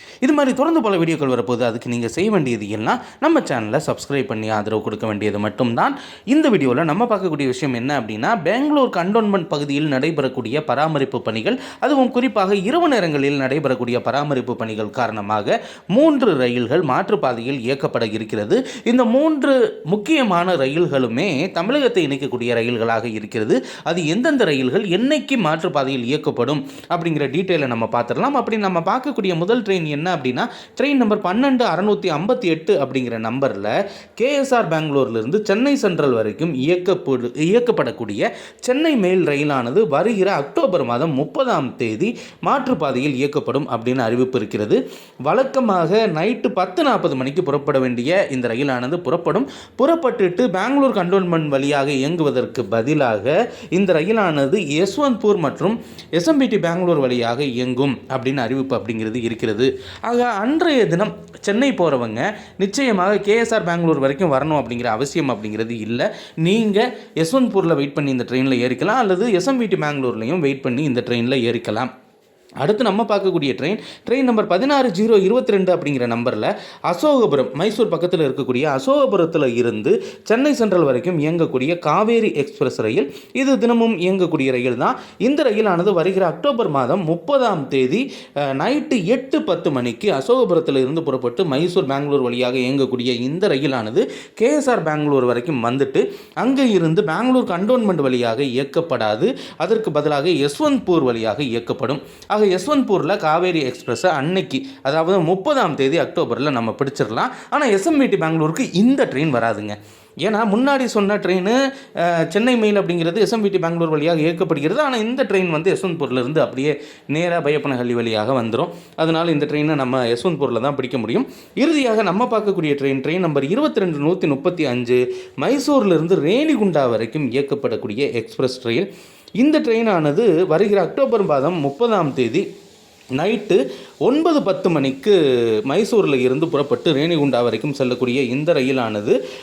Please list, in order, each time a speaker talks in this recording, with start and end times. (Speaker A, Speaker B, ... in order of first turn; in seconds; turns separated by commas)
Speaker A: 0.2-71.9, Speaker A: 72.6-128.9, Speaker A: 129.4-132.4, Speaker A: 133.2-135.2, Speaker A: 135.7-139.2